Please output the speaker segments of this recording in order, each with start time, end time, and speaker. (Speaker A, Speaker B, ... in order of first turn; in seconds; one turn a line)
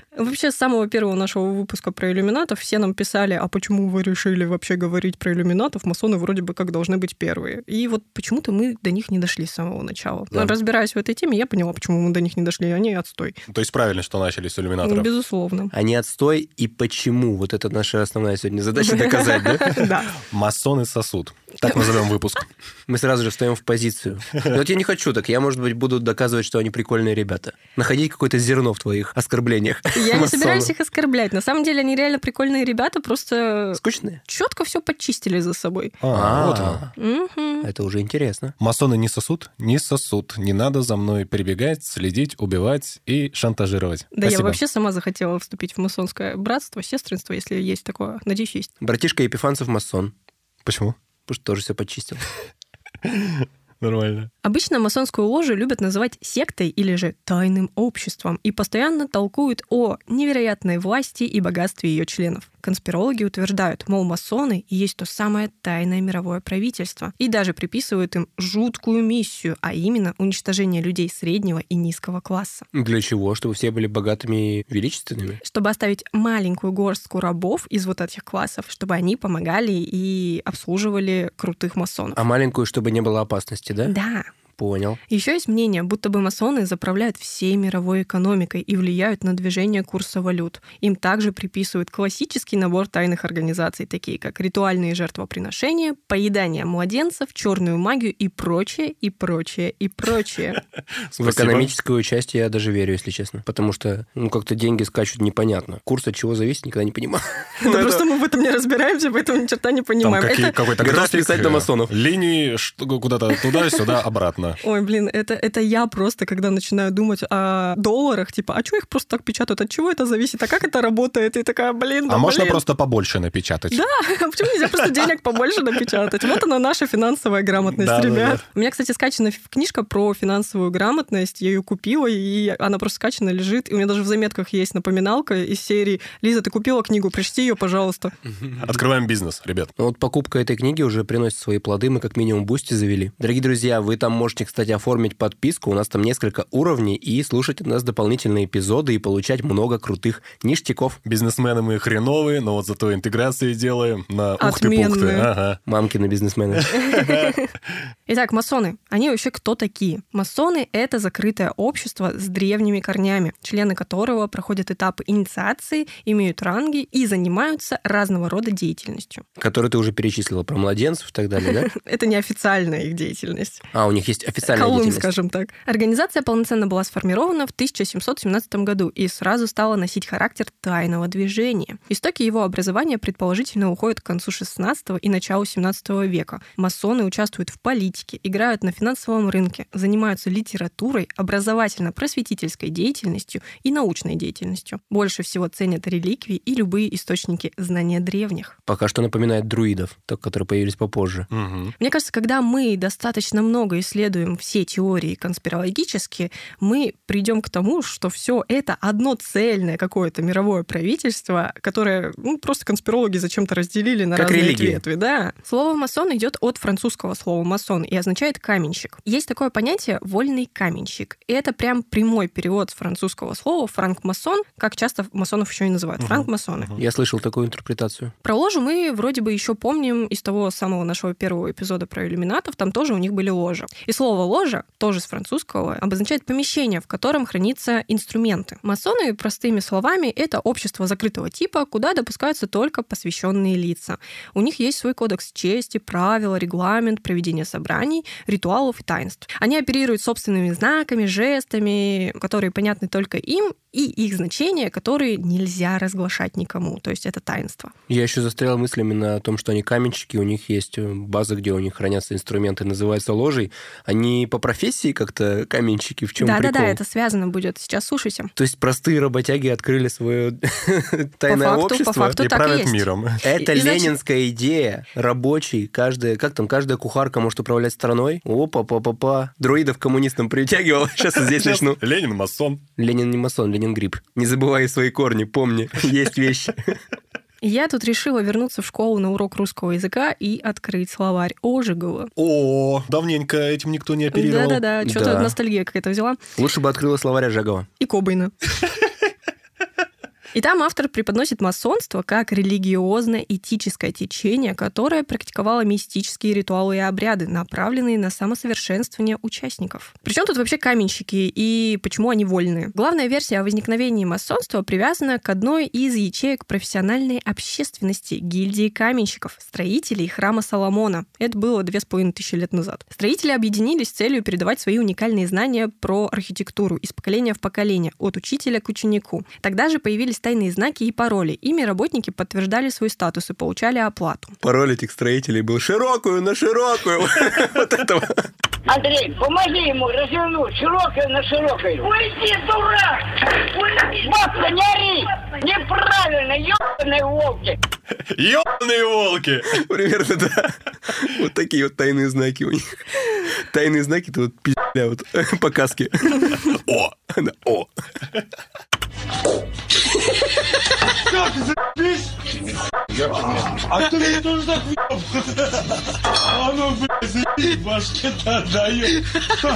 Speaker A: 0.1-13.4
Speaker B: 13.5-15.1
Speaker A: 14.8-15.7
Speaker C: 15.7-19.8
Speaker A: 18.8-20.1
Speaker B: 20.3-22.5
Speaker A: 21.6-22.0
Speaker C: 22.9-30.7
Speaker A: 29.9-36.0
Speaker C: 33.8-34.2
Speaker B: 36.0-36.8
Speaker C: 36.1-36.9
Speaker A: 37.0-37.7
Speaker C: 37.6-38.5
Speaker B: 38.6-44.6
Speaker A: 44.1-48.7
Speaker C: 48.8-50.1
Speaker B: 50.6-51.0
Speaker C: 51.3-52.2
Speaker B: 53.0-54.3
Speaker A: 54.4-72.7
Speaker C: 72.7-75.4
Speaker A: 75.4-82.2
Speaker C: 82.2-83.9
Speaker A: 83.8-84.3
Speaker C: 84.5-85.0
Speaker A: 85.1-100.6
Speaker B: 101.1-101.7
Speaker C: 101.2-108.1
Speaker A: 107.6-110.6
Speaker B: 110.0-114.6
Speaker C: 110.8-111.9
Speaker A: 114.6-122.6
Speaker B: 122.1-123.8
Speaker A: 123.7-138.1
Speaker B: 127.7-128.4
Speaker C: 138.3-138.8
Speaker B: 138.6-139.7
Speaker C: 139.8-151.0
Speaker B: 151.1-155.6
Speaker A: 154.4-155.3
Speaker C: 155.7-156.8
Speaker B: 156.6-157.3
Speaker A: 156.7-157.5
Speaker A: 158.1-169.2
Speaker C: 169.4-171.7
Speaker A: 171.4-173.7
Speaker C: 173.7-175.1
Speaker A: 174.4-198.6
Speaker C: 198.7-201.3
Speaker B: 201.3-201.7
Speaker A: 201.8-226.7
Speaker C: 214.2-214.8
Speaker B: 226.0-226.8
Speaker C: 226.8-228.1
Speaker A: 228.2-257.7
Speaker C: 257.9-266.8
Speaker A: 266.2-268.3
Speaker C: 268.4-272.2
Speaker A: 271.3-272.9
Speaker B: 272.2-273.2
Speaker C: 273.2-281.8
Speaker A: 273.4-273.9
Speaker B: 281.2-282.6
Speaker C: 282.8-286.8
Speaker A: 287.4-292.1
Speaker B: 292.2-294.7
Speaker A: 294.1-296.2
Speaker C: 294.8-295.4
Speaker C: 296.4-297.7
Speaker A: 297.8-298.3
Speaker A: 300.3-334.4
Speaker C: 334.4-338.3
Speaker D: 338.7-347.6
Speaker B: 348.1-349.6
Speaker C: 349.5-357.7
Speaker B: 356.5-356.9
Speaker E: 363.8-365.0
Speaker E: 366.7-368.9